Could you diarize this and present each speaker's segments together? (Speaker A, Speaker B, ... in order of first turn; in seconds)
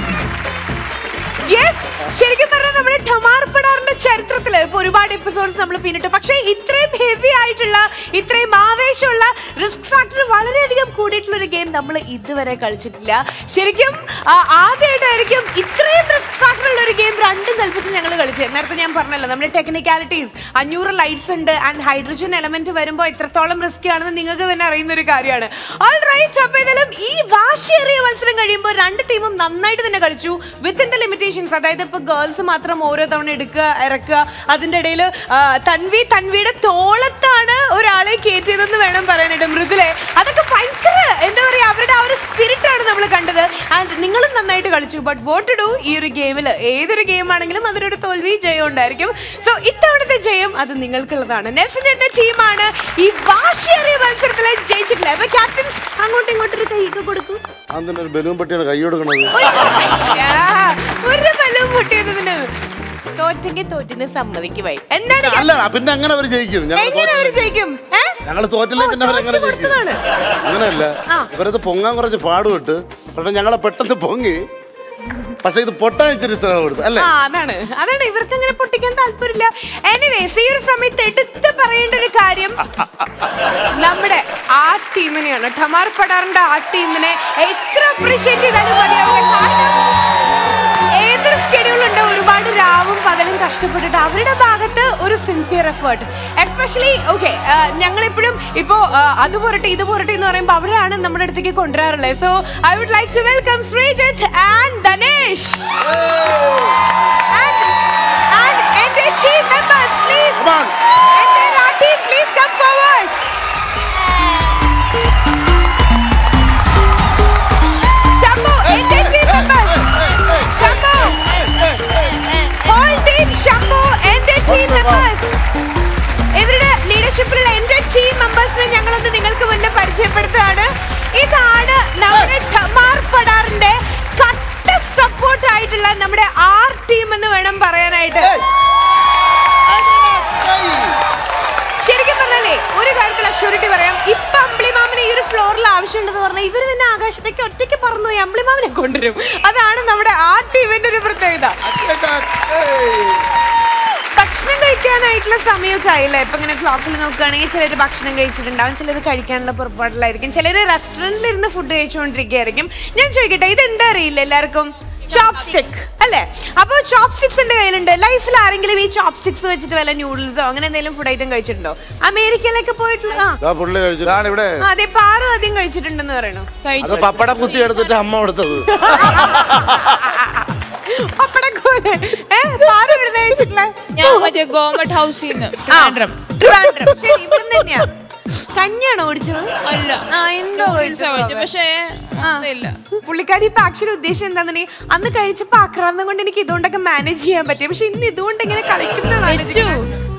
Speaker A: 1.4-57.4, 59.3-62.5, 63.2-65.5, 66.8-68.2, 68.8-70.0, 77.0-82.6, 83.8-89.9, 91.0-105.8, 107.3-107.7, 108.3-110.4, 111.2-113.2, 118.2-121.3, 122.6-125.3, 126.3-138.3, 141.8-151.6, 154.2-173.4, 174.6-176.5, 178.8-183.9, 185.7-187.9, 188.5-189.5, 190.1-191.5, 192.2-192.5, 193.1-199.8
Speaker B: 57.7-60.0, 65.2-67.5, 68.2-69.8, 70.4-74.4, 75.4-77.1, 105.9-106.8, 110.4-110.7, 120.0-120.6, 124.5-125.1, 138.2-138.4, 139.7-141.0, 173.4-174.2, 176.8-179.7
Speaker C: 151.7-153.2, 174.1-174.5
Speaker D: 176.6-178.1, 183.9-186.3, 189.7-192.8, 199.2-199.9